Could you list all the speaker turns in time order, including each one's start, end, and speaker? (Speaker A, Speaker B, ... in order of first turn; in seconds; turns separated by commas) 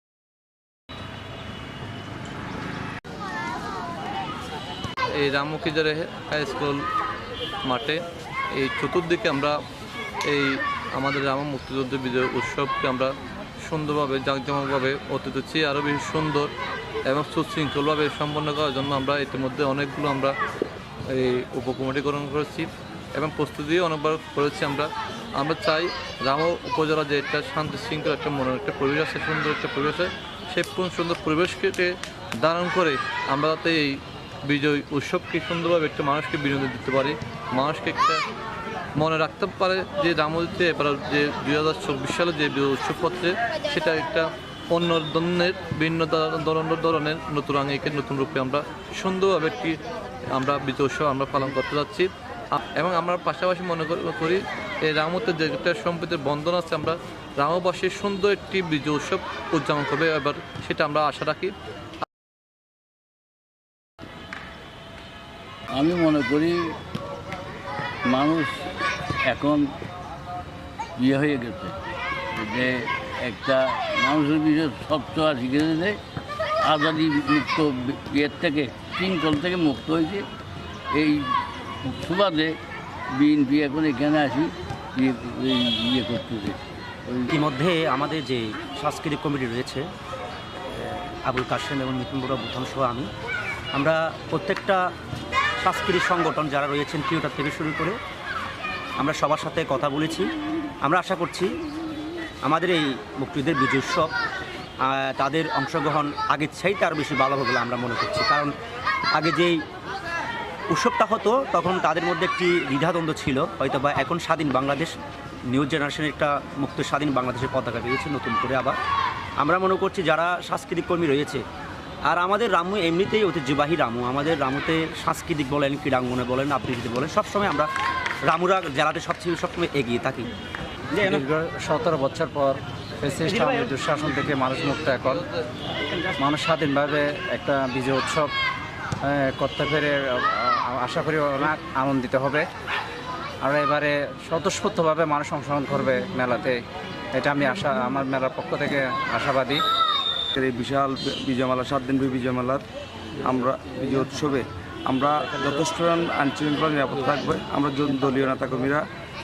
Speaker A: 5.2-6.8, Speaker A: 7.6-8.0, Speaker A: 8.5-9.5, Speaker A: 10.3-16.5, Speaker A: 17.1-20.3, Speaker A: 21.1-38.2, Speaker A: 39.0-49.8, Speaker A: 50.3-61.5, Speaker B: 65.7-66.7, Speaker B: 68.1-68.5, Speaker B: 69.2-69.6, Speaker B: 71.0-71.8, Speaker B: 72.3-76.0, Speaker B: 76.6-80.2, Speaker B: 80.9-82.5, Speaker B: 83.1-87.3, Speaker C: 87.3-89.8, Speaker C: 90.7-93.1, Speaker C: 93.7-94.8, Speaker C: 95.6-98.0, Speaker C: 99.0-100.3, Speaker C: 100.8-101.5, Speaker C: 102.4-104.1, Speaker C: 104.8-108.5, Speaker C: 109.2-109.6, Speaker C: 110.7-114.9, Speaker C: 115.5-118.8, Speaker C: 119.4-121.4, Speaker C: 122.1-127.7, Speaker C: 128.2-130.3, Speaker C: 130.9-131.2, Speaker D: 131.0-135.2, Speaker C: 133.2-134.3, Speaker A: 134.5-135.4, Speaker D: 136.2-138.3, Speaker D: 139.0-142.4, Speaker D: 143.4-146.6, Speaker D: 147.1-149.6, Speaker E: 150.3-152.6, Speaker E: 153.2-158.8